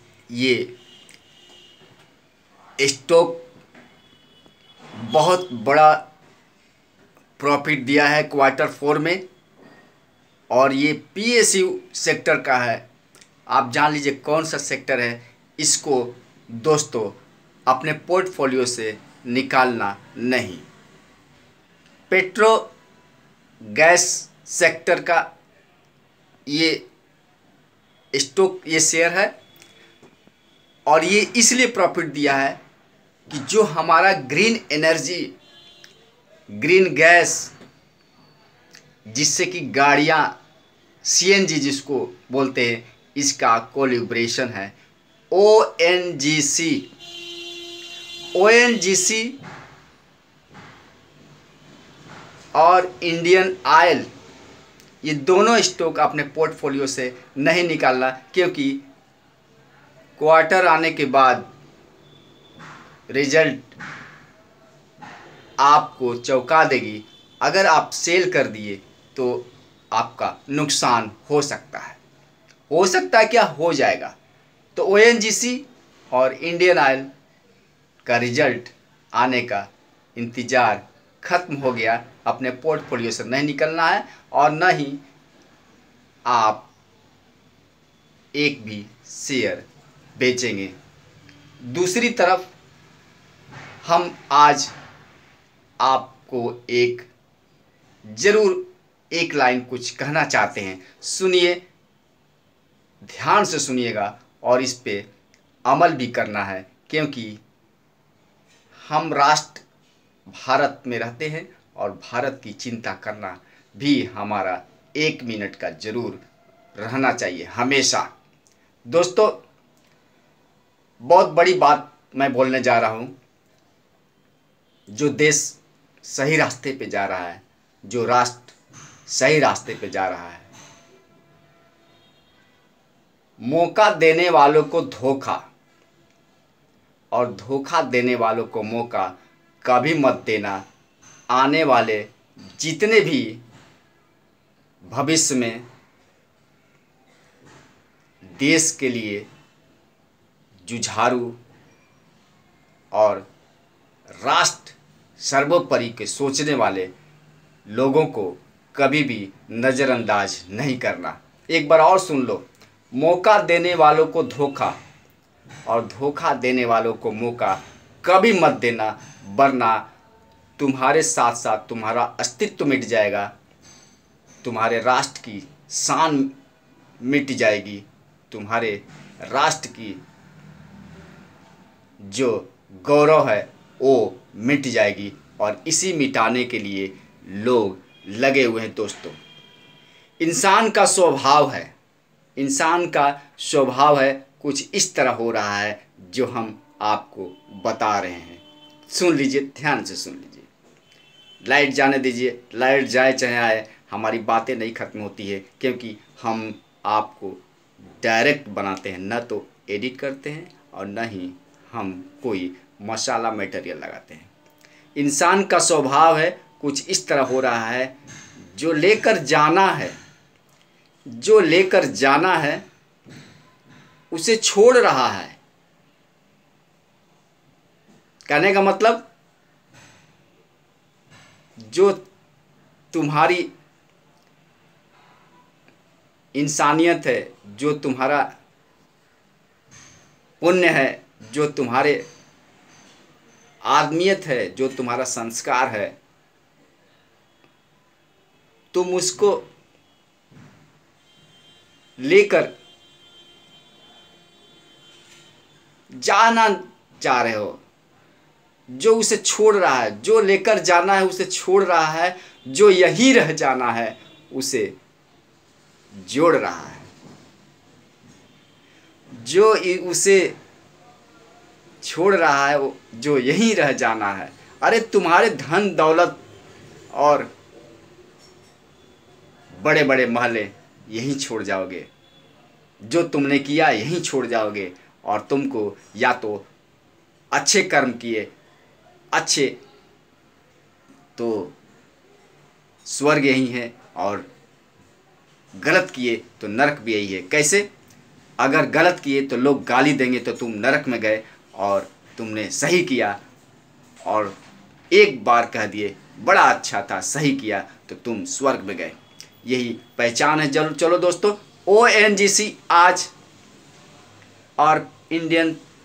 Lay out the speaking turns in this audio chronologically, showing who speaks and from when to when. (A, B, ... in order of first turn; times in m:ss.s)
0:00.3-0:00.7 A
0:02.8-0:03.4 A
0:05.0-0:06.0 A
0:07.4-0:09.2 A
0:10.5-0:12.8 A
0:13.5-0:20.7 A
0:22.1-0:22.7 A
0:23.7-0:25.3 A
0:26.5-0:26.8 A
0:28.1-0:29.3 A
0:30.9-0:32.6 A
0:33.3-0:35.3 A
0:36.5-0:37.5 A
0:39.1-0:40.3 A
0:41.0-0:44.8 A
0:45.3-0:46.9 A
0:48.3-0:49.4 A
0:52.6-0:54.1 A
0:55.0-0:58.8 A
1:00.2-1:01.5 A
1:03.1-1:03.8 A
1:05.6-1:12.0 A
1:12.7-1:14.2 A
1:14.8-1:17.1 A
1:18.1-1:25.0 A
1:26.3-1:26.7 A
1:28.3-1:30.8 A
1:31.6-1:32.5 A
1:33.8-1:34.7 A
1:35.8-1:37.1 A
1:38.1-1:41.6 A
1:43.1-1:45.1 A
1:45.7-1:47.4 A
1:48.8-1:49.6 A
1:50.3-1:56.2 A
1:56.8-1:58.1 A
1:58.9-1:59.4 A
2:01.0-2:03.1 A
2:04.9-2:08.6 A
2:09.1-2:10.5 A
2:13.4-2:15.5 A
2:17.1-2:20.6 A
2:21.3-2:23.4 A
2:24.8-2:25.6 A
2:28.4-2:29.3 A
2:30.6-2:31.4 A
2:32.9-2:33.3 A
2:34.2-2:36.9 A
2:37.7-2:44.8 A
2:45.7-2:49.9 A
2:50.6-2:53.3 A
2:54.4-2:56.3 A
2:57.0-3:00.0 A
3:02.0-3:09.2 A
3:10.2-3:11.7 A
3:12.4-3:20.5 A
3:21.4-3:27.4 A
3:28.0-3:34.3 A
3:35.0-3:37.9 A
3:38.5-3:40.0 A
3:41.1-3:42.6 A
3:44.1-3:45.4 A
3:48.3-3:49.1 A
3:51.6-3:52.0 A
3:52.9-3:53.5 A
3:56.3-3:58.3 A
4:00.4-4:02.0 A
4:03.6-4:06.0 A
4:08.7-4:09.4 A
4:12.0-4:12.5 A
4:15.9-4:17.6 A
4:18.7-4:24.8 A
4:26.0-4:26.9 A
4:29.1-4:30.4 A
4:31.8-4:36.2 A
4:36.9-4:37.3 A
4:39.5-4:41.9 A
4:42.8-4:46.5 A
4:47.3-4:48.3 A
4:49.1-4:49.6 A
4:51.2-4:51.6 A
4:52.8-4:54.3 A
4:55.6-4:57.7 A
4:58.4-5:03.2 A
5:04.0-5:04.4 A
5:04.9-5:13.1 A
5:14.6-5:15.6 A